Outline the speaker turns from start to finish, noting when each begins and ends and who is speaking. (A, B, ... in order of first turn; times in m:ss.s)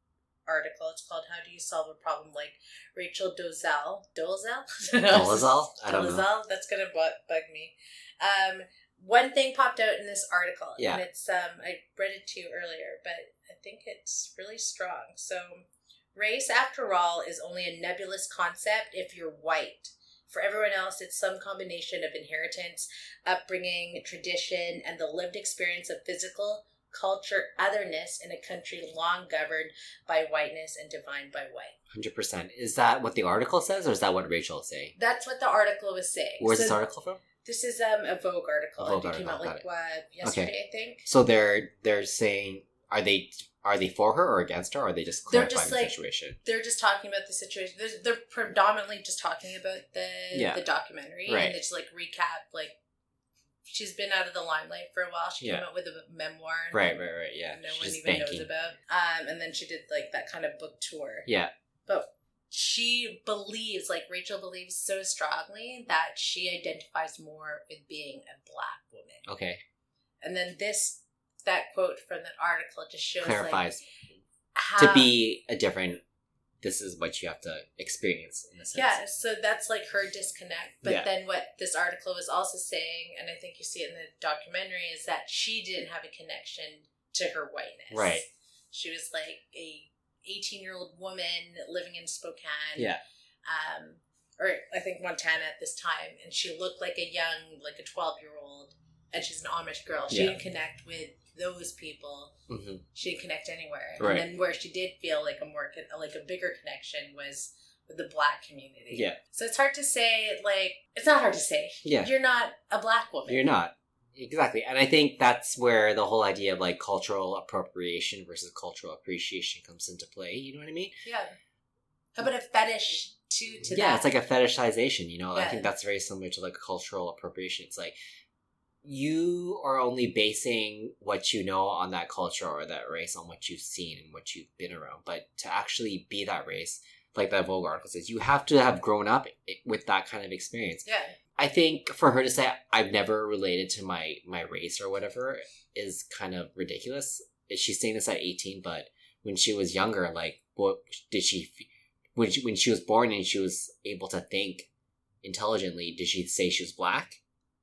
0:00.5-0:31.8 A
0:05.1-0:06.2 B
0:10.8-0:11.0 B
0:31.9-0:34.9 B
0:35.0-0:36.8 A
0:36.4-0:37.2 B
0:37.4-0:41.1 A
0:38.8-0:39.6 B
0:40.2-0:40.5 B
0:41.0-0:46.4 B
0:45.3-0:52.8 A
0:50.3-0:50.6 B
0:51.3-0:51.6 B
0:53.6-1:01.3 A
0:55.4-0:55.6 B
0:56.7-0:58.5 B
1:01.2-1:01.5 B
1:01.9-1:09.2 A
1:09.2-1:09.6 B
1:10.2-1:13.7 A
1:13.2-1:13.8 B
1:14.5-1:15.1 A
1:14.8-1:16.0 B
1:16.6-1:19.0 B
1:18.7-1:32.9 A
1:27.9-1:28.2 B
1:32.8-1:33.0 B
1:33.4-1:42.3 A
1:40.1-1:40.4 B
1:42.5-1:42.8 B
1:42.9-1:53.5 A
1:44.0-1:44.2 B
1:48.9-1:49.2 B
1:51.8-1:52.1 B
1:53.3-2:00.9 B
2:01.0-2:01.3 A
2:02.2-2:04.1 A
2:03.7-2:07.9 B
2:05.3-2:05.7 A
2:08.8-2:34.7 B
2:20.8-2:21.2 A
2:35.2-2:37.2 B